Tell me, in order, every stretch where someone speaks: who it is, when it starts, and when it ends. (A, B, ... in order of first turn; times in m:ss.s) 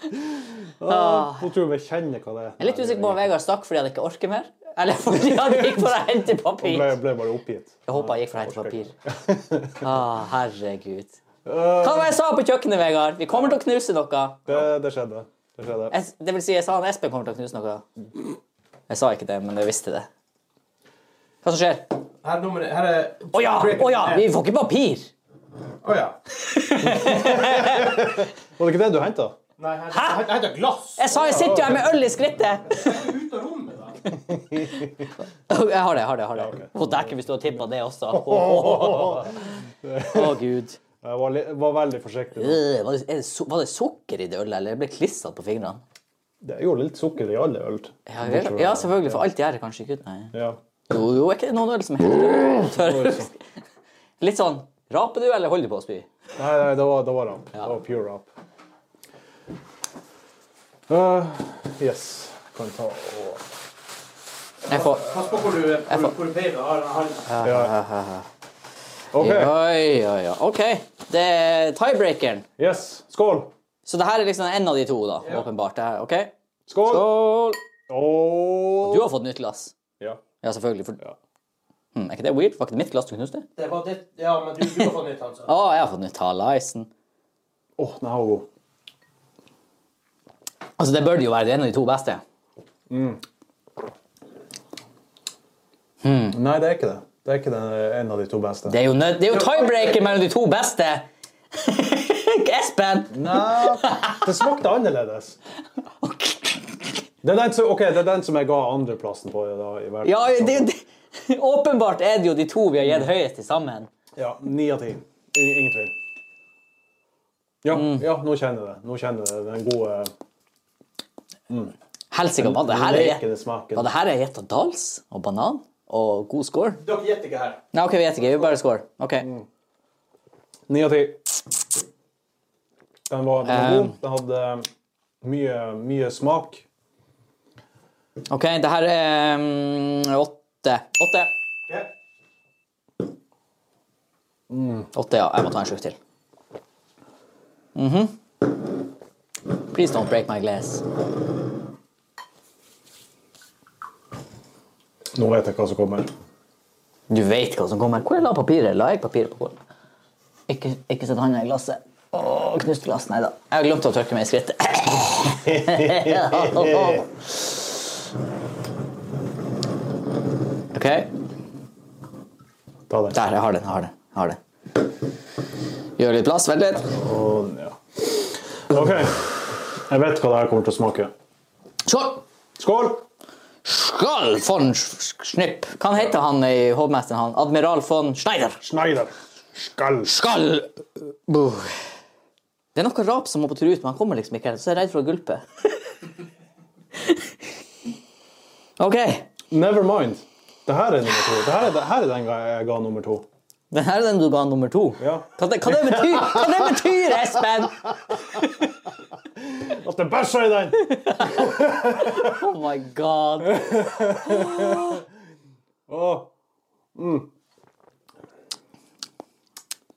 0:00.1-0:03.3 A
0:00.9-0:01.5 B
0:02.6-0:07.0 B
0:05.2-0:06.0 A
0:06.6-0:09.9 A
0:07.9-0:08.9 B
0:09.8-0:11.2 B
0:11.4-0:12.1 A
0:11.7-0:14.4 B
0:14.5-0:16.0 A
0:15.9-0:17.8 B
0:18.9-0:20.1 B
0:21.4-0:22.0 B
0:22.2-0:24.2 C
0:23.3-0:25.1 B
0:25.8-0:26.2 C
0:26.4-0:28.1 B
0:26.8-0:29.4 A
0:29.6-0:31.2 C
0:29.9-0:30.3 B
0:31.0-0:33.0 B
0:31.1-0:31.8 A
0:32.7-0:34.0 C
0:34.1-0:35.1 A
0:35.5-0:40.8 B
0:36.4-0:37.2 A
0:38.1-0:40.4 A
0:41.0-0:42.6 A
0:42.4-0:45.8 B
0:46.4-0:49.2 A
0:48.1-0:50.3 B
0:50.3-0:50.6 A
0:50.9-0:53.4 B
0:52.7-0:53.3 A
0:54.2-0:56.1 B
0:56.4-0:58.3 A
1:00.9-1:03.4 A
1:04.7-1:07.3 C
1:04.7-1:05.1 B
1:07.3-1:08.3 B
1:07.4-1:07.7 A
1:09.1-1:09.5 A
1:09.2-1:12.5 B
1:12.6-1:13.5 A
1:13.9-1:16.3 B
1:16.7-1:17.4 A
1:16.8-1:17.6 B
1:17.9-1:19.1 A
1:18.8-1:19.8 B
1:20.4-1:21.0 B
1:22.0-1:23.4 B
1:23.6-1:25.5 C
1:25.5-1:26.9 B
1:27.8-1:28.5 A
1:30.8-1:32.2 B
1:32.9-1:33.2 A
1:36.0-1:36.4 B
1:36.3-1:38.8 A
1:38.7-1:44.3 B
1:39.3-1:40.2 C
1:43.1-1:45.4 A
1:46.0-1:46.9 B
1:47.2-1:50.7 A
1:50.0-1:53.9 B
1:52.8-1:53.1 A
1:54.2-1:55.9 A
1:57.6-2:00.1 A
1:57.7-1:58.1 B
2:01.5-2:01.7 A
2:02.1-2:06.8 B
2:02.4-2:03.9 A
2:06.8-2:07.6 C
2:07.7-2:09.3 B
2:10.7-2:11.3 A
2:13.1-2:14.7 A
2:13.5-2:14.0 B
2:15.2-2:16.6 A
2:18.3-2:21.3 B
2:24.5-2:24.9 A
2:24.9-2:26.0 B
2:27.8-2:28.2 B
2:29.6-2:30.9 B
2:35.1-2:36.1 A
2:37.1-2:39.6 B
2:40.5-2:47.1 B
2:45.5-2:47.0 A
2:50.7-2:51.1 B
2:52.9-2:53.2 A
2:53.1-2:54.4 B
2:56.0-2:56.9 B
2:56.9-3:01.1 A
3:01.9-3:02.2 B
3:02.6-3:03.0 A
3:03.6-3:08.6 B
3:08.6-3:10.2 A
3:10.1-3:11.8 B
3:12.8-3:15.8 B
3:17.0-3:17.3 B
3:18.8-3:19.3 B
3:19.5-3:23.3 A
3:23.7-3:28.4 B
3:25.0-3:27.0 A
3:27.8-3:32.4 A
3:30.8-3:35.0 B
3:33.5-3:35.0 A
3:35.9-3:36.3 A
3:37.0-3:37.3 A